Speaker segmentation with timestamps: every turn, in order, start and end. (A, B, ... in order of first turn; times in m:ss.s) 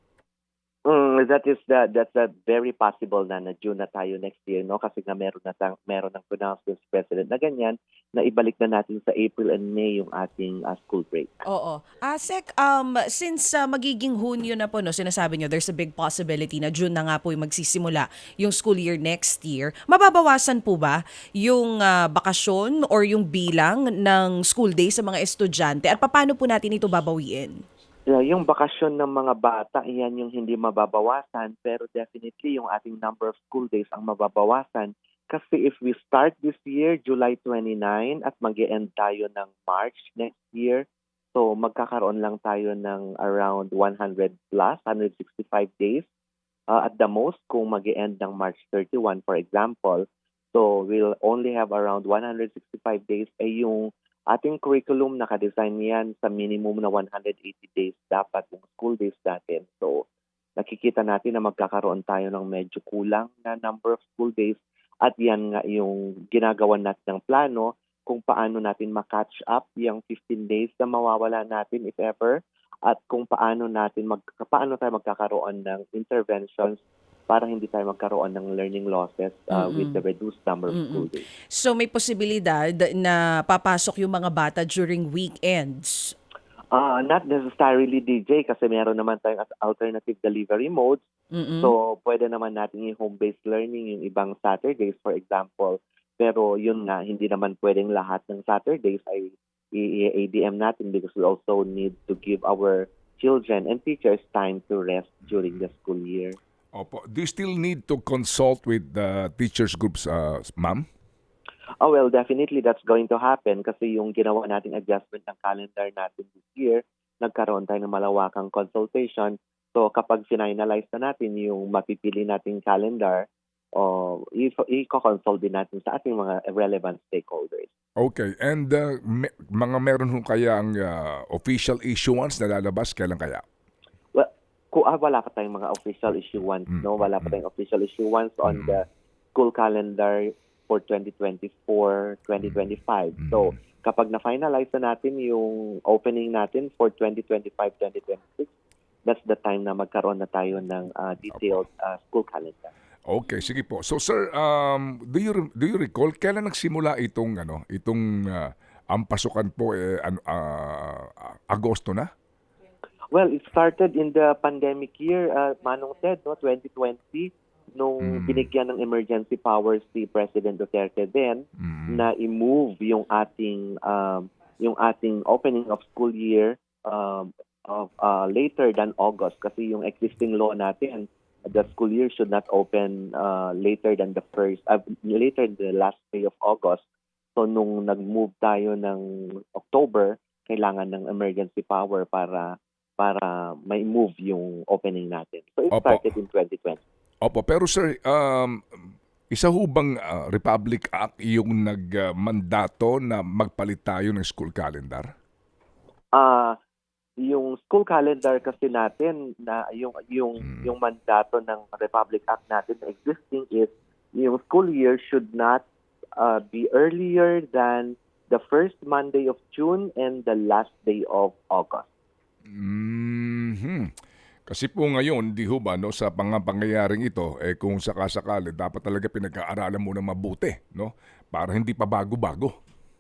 0:00.9-0:11.4 A
0:11.5-0:27.6 B
0:28.1-0:46.1 A
0:46.7-1:00.0 A
1:00.6-1:21.2 A
1:19.5-1:20.0 B
1:20.7-1:26.1 B
1:26.7-1:31.0 A
1:31.3-1:31.7 B
1:31.6-1:46.4 A
1:46.7-1:50.9 C
1:51.8-2:07.7 A
2:08.0-2:13.4 C
2:14.1-2:28.5 A
2:23.2-2:23.4 C
2:29.0-2:32.7 A
2:33.1-2:42.1 C
2:43.1-3:06.8 A
2:48.0-2:48.5 C
2:51.6-2:52.1 C
3:07.4-3:16.8 A
3:15.7-3:16.1 C
3:17.2-3:18.6 C
3:19.3-3:25.1 C
3:26.1-3:26.6 A
3:27.2-3:35.6 A
3:36.2-3:41.9 A
3:42.6-3:43.9 C
3:44.5-3:52.5 C